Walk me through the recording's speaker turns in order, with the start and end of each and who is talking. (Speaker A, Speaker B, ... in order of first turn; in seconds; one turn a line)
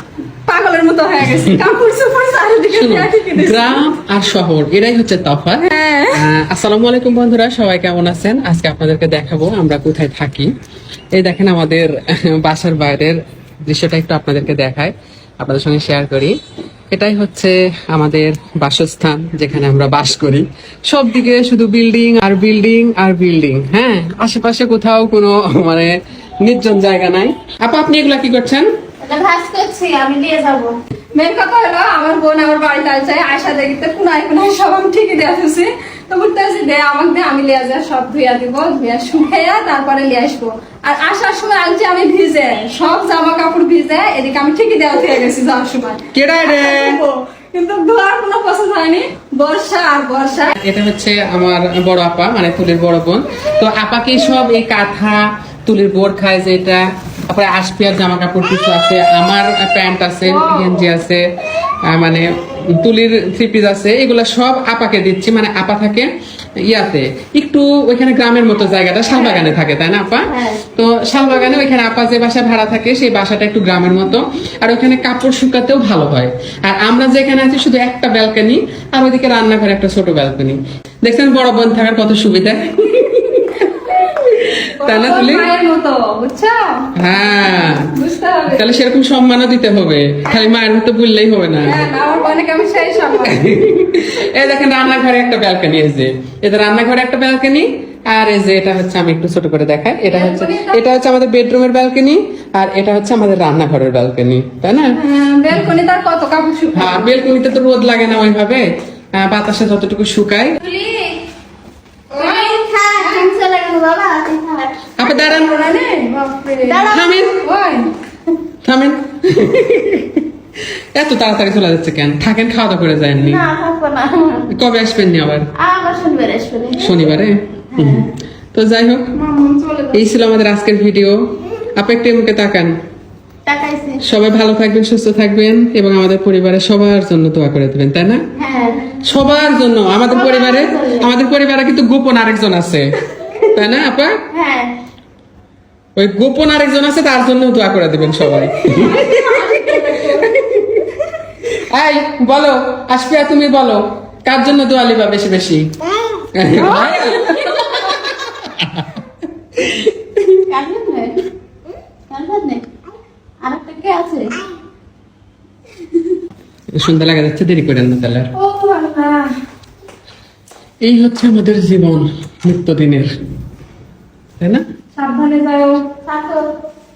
Speaker A: 0.5-3.8
Speaker B: 2.7-10.5
Speaker A: 5.7-6.2
Speaker B: 11.1-16.4
Speaker B: 16.9-28.7
Speaker C: 29.0-30.8
Speaker A: 31.1-50.5
Speaker B: 46.1-47.0
Speaker B: 50.6-61.2
Speaker A: 60.2-60.7
Speaker B: 61.8-85.5
Speaker C: 70.3-70.6
Speaker A: 83.1-84.0
Speaker A: 84.7-86.9
Speaker B: 87.0-87.9
Speaker A: 87.5-88.7
Speaker B: 88.5-91.9
Speaker A: 91.6-93.5
Speaker B: 93.2-105.0
Speaker A: 100.1-100.8
Speaker A: 105.0-107.0
Speaker B: 106.7-110.6
Speaker A: 110.6-111.2
Speaker C: 112.1-114.9
Speaker A: 112.2-113.2
Speaker B: 115.0-115.8
Speaker A: 115.3-117.9
Speaker C: 116.6-117.4
Speaker B: 116.8-117.4
Speaker B: 118.6-120.3
Speaker B: 120.9-123.4
Speaker C: 123.2-124.5
Speaker B: 124.5-125.5
Speaker C: 125.5-127.0
Speaker B: 126.7-129.1
Speaker C: 127.7-128.0
Speaker C: 129.3-129.9
Speaker B: 129.9-131.2
Speaker B: 131.7-132.8
Speaker C: 133.4-134.0
Speaker B: 134.0-138.2
Speaker C: 138.3-138.9
Speaker B: 139.0-144.1
Speaker C: 140.1-141.1
Speaker C: 144.3-144.7
Speaker B: 145.9-149.2
Speaker A: 148.6-150.4
Speaker B: 151.5-155.7
Speaker B: 156.3-159.0
Speaker A: 157.2-157.8
Speaker B: 159.6-160.3
Speaker C: 160.5-161.2
Speaker C: 162.1-162.7
Speaker C: 163.4-164.4
Speaker B: 166.7-168.3
Speaker A: 168.3-169.3
Speaker B: 170.8-173.2
Speaker A: 174.9-175.8
Speaker C: 176.0-176.5